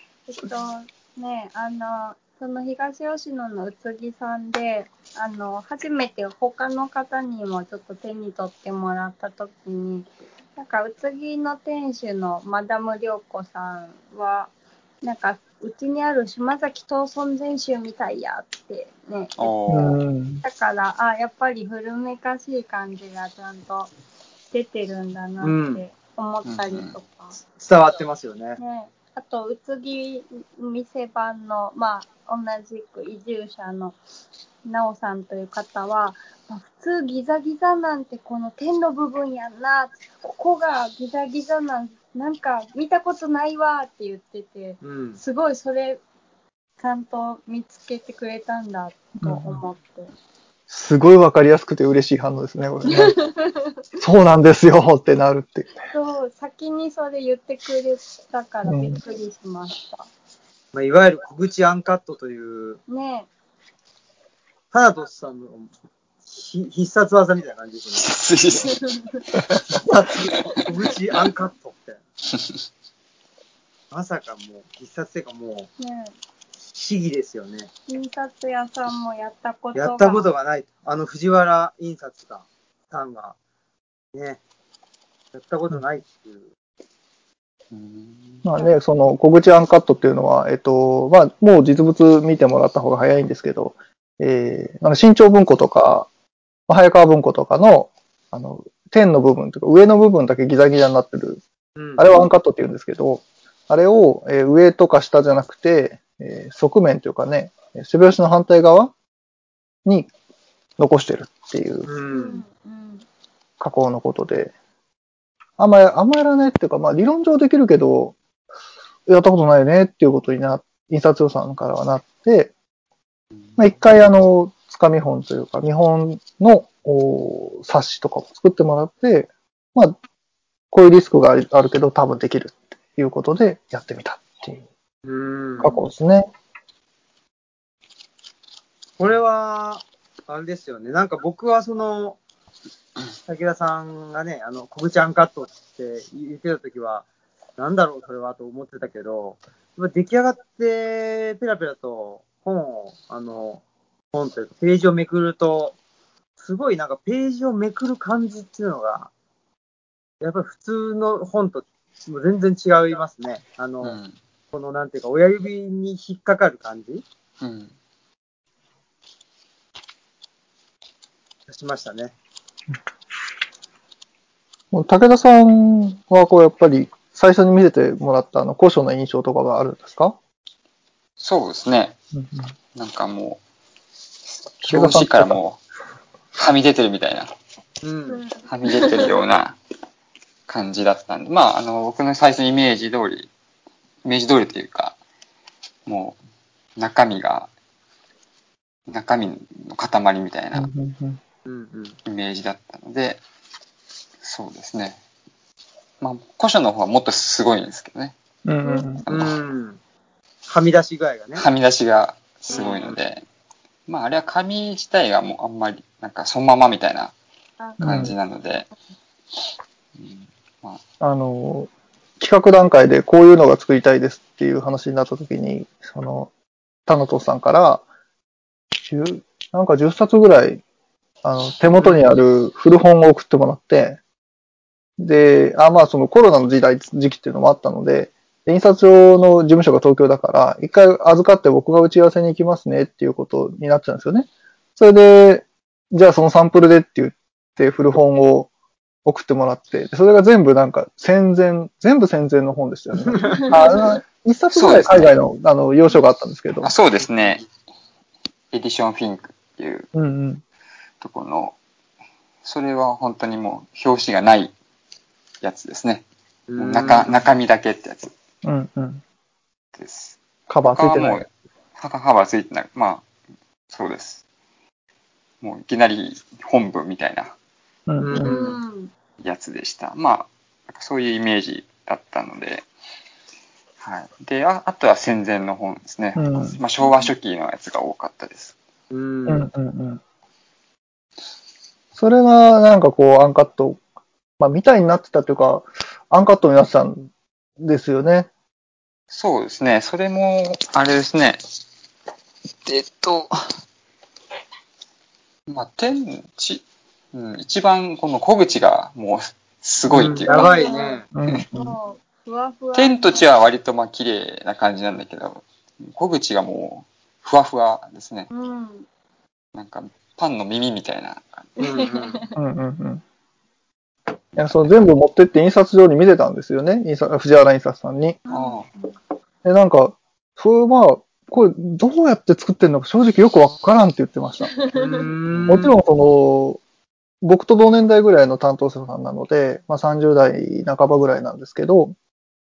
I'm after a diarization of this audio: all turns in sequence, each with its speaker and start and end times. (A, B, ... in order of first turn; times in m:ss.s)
0:00.3-0:14.5 A
0:15.0-0:19.5 A
0:19.4-0:20.0 B
0:19.7-0:20.4 C
0:20.4-0:23.9 A
0:24.5-0:27.4 A
0:25.4-0:25.8 D
0:26.5-0:27.0 B
0:27.6-0:28.6 D
0:28.6-0:34.0 A
0:34.6-0:46.0 A
0:44.8-0:45.2 D
0:46.8-0:50.1 A
0:49.2-0:49.6 C
0:50.7-0:53.2 C
0:52.9-0:53.8 A
0:54.0-0:55.9 C
0:55.9-1:00.1 A
0:58.7-0:59.0 C
1:00.7-1:02.8 D
1:02.9-1:03.3 A
1:04.7-1:05.7 D
1:06.3-1:08.1 D
1:08.0-1:08.8 B
1:08.6-1:09.2 A
1:09.5-1:12.0 D
1:13.9-1:15.7 D
1:15.8-1:16.1 A
1:16.7-1:17.7 D
1:17.9-1:20.3 A
1:19.8-1:23.4 D
1:24.1-1:24.4 D
1:25.3-1:26.5 D
1:27.7-1:28.4 B
1:28.4-1:36.1 C
1:36.7-1:41.4 C
1:41.8-1:42.0 D
1:42.0-1:48.9 C
1:49.8-1:50.1 C
1:50.8-1:51.9 C
1:51.8-1:52.4 D
1:52.1-1:53.1 A
1:53.6-1:54.5 C
1:55.6-1:58.2 C
1:59.1-2:02.5 C
2:03.6-2:10.0 C
2:10.7-2:14.7 C
2:15.0-2:15.7 D
2:15.6-2:16.3 C
2:15.6-2:15.9 A
2:19.0-2:22.2 D
2:23.3-2:27.1 D
2:27.6-2:33.6 D
2:34.1-2:35.8 D
2:36.4-2:39.1 D
2:40.2-2:44.0 D
2:43.8-2:44.1 B
2:44.5-2:47.0 D
2:47.4-2:47.7 B
2:51.5-2:52.1 D
2:54.7-3:00.2 C
3:01.2-3:02.0 B
3:02.2-3:02.5 C
3:02.8-3:03.4 B
3:04.6-3:05.6 B
3:04.6-3:05.4 C
3:06.3-3:07.3 B
3:07.8-3:08.2 D
3:08.1-3:09.1 A
3:08.5-3:09.6 B
3:10.5-3:13.3 B
3:14.0-3:15.0 B
3:15.9-3:16.2 B
3:16.8-3:17.5 B
3:18.9-3:20.7 B
3:20.6-3:21.2 C
3:21.5-3:22.0 D
3:22.1-3:23.2 B
3:24.2-3:25.0 B
3:26.0-3:28.2 B
3:28.4-3:29.0 C
3:28.6-3:29.0 A
3:29.1-3:29.4 B
3:29.1-3:29.8 D
3:30.5-3:31.4 D
3:31.4-3:33.2 B
3:32.5-3:32.8 A
3:32.5-3:33.0 D
3:33.9-3:37.1 B
3:37.6-3:38.2 A
3:37.8-3:38.1 C
3:37.8-3:38.7 B
3:40.0-3:40.8 B
3:41.0-3:46.3 C
3:46.9-3:47.8 C
3:48.8-3:50.6 C
3:51.2-3:54.0 C
3:51.8-3:52.0 D
3:55.0-4:08.5 C
4:09.0-4:16.7 C
4:13.1-4:13.5 D
4:13.4-4:13.8 A
4:14.5-4:15.2 B
4:16.6-4:17.5 B
4:18.5-4:19.9 B
4:19.9-4:20.4 C
4:21.0-4:21.6 B
4:22.4-4:24.5 B
4:25.4-4:26.0 B
4:26.5-4:27.2 D
4:26.6-4:28.1 B
4:28.4-4:29.0 C
4:29.8-4:33.0 B
4:30.5-4:31.2 C
4:33.7-4:34.2 B
4:35.4-4:37.3 B
4:37.9-4:38.5 C
4:38.0-4:38.5 D
4:38.2-4:38.9 A
4:39.2-4:42.7 B
4:43.8-4:48.6 B
4:46.2-4:46.6 C
4:46.8-4:47.1 A
4:48.9-4:49.5 D
4:49.3-4:50.0 C
4:52.0-4:53.8 C
4:54.4-4:58.3 C
4:59.1-5:01.4 B
5:02.6-5:03.6 B
5:05.5-5:10.7 B
5:09.9-5:11.0 D
5:10.3-5:13.3 A
5:11.1-5:11.8 C
5:12.8-5:18.3 B
5:18.3-5:18.9 A
5:19.5-5:21.6 B
5:21.6-5:22.2 D
5:21.6-5:22.3 A
5:22.4-5:23.0 C
5:24.4-5:28.2 C
5:28.3-5:29.0 A
5:28.3-5:28.7 B
5:29.4-5:34.6 C
5:34.5-5:35.1 A
5:34.8-5:35.8 D
5:35.3-5:35.6 B
5:35.5-5:36.6 C
5:37.2-5:42.0 C